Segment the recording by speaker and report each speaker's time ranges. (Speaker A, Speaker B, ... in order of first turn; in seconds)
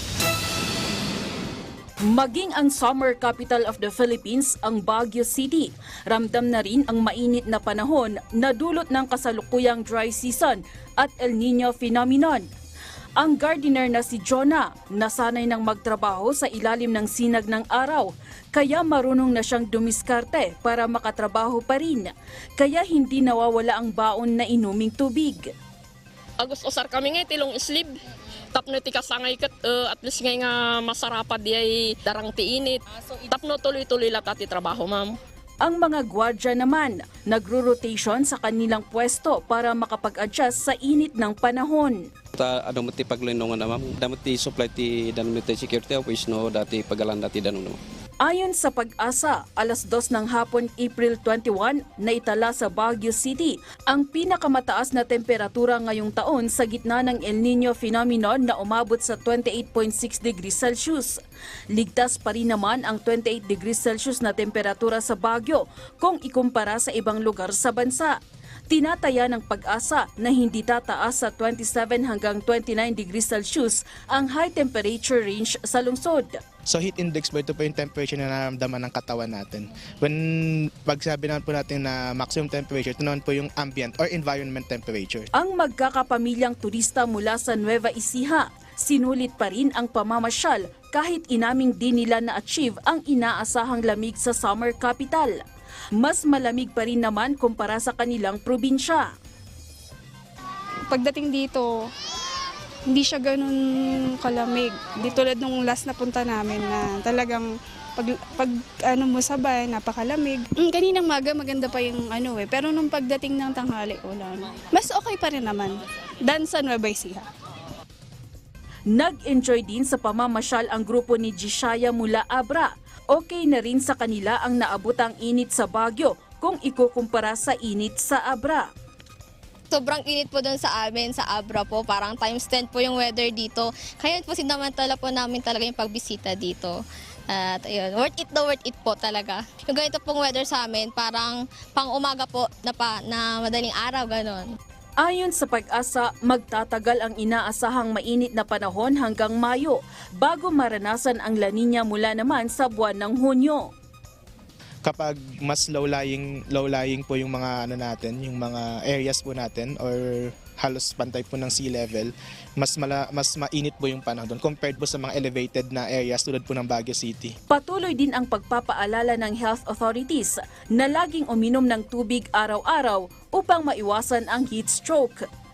Speaker A: 2.1-12.5, 13.2-25.4, 35.6-42.0, 48.2-61.2, 61.7-68.1, 68.7-76.4, 85.3-95.4, 96.0-99.0, 118.9-128.7, 145.0-153.7, 167.5-175.2
Speaker B: 26.4-27.9, 28.5-32.8, 33.3-35.1
Speaker C: 42.4-47.8
Speaker D: 76.7-85.3, 154.8-167.3
Speaker E: 100.9-101.9, 102.9-117.3
Speaker F: 129.7-144.4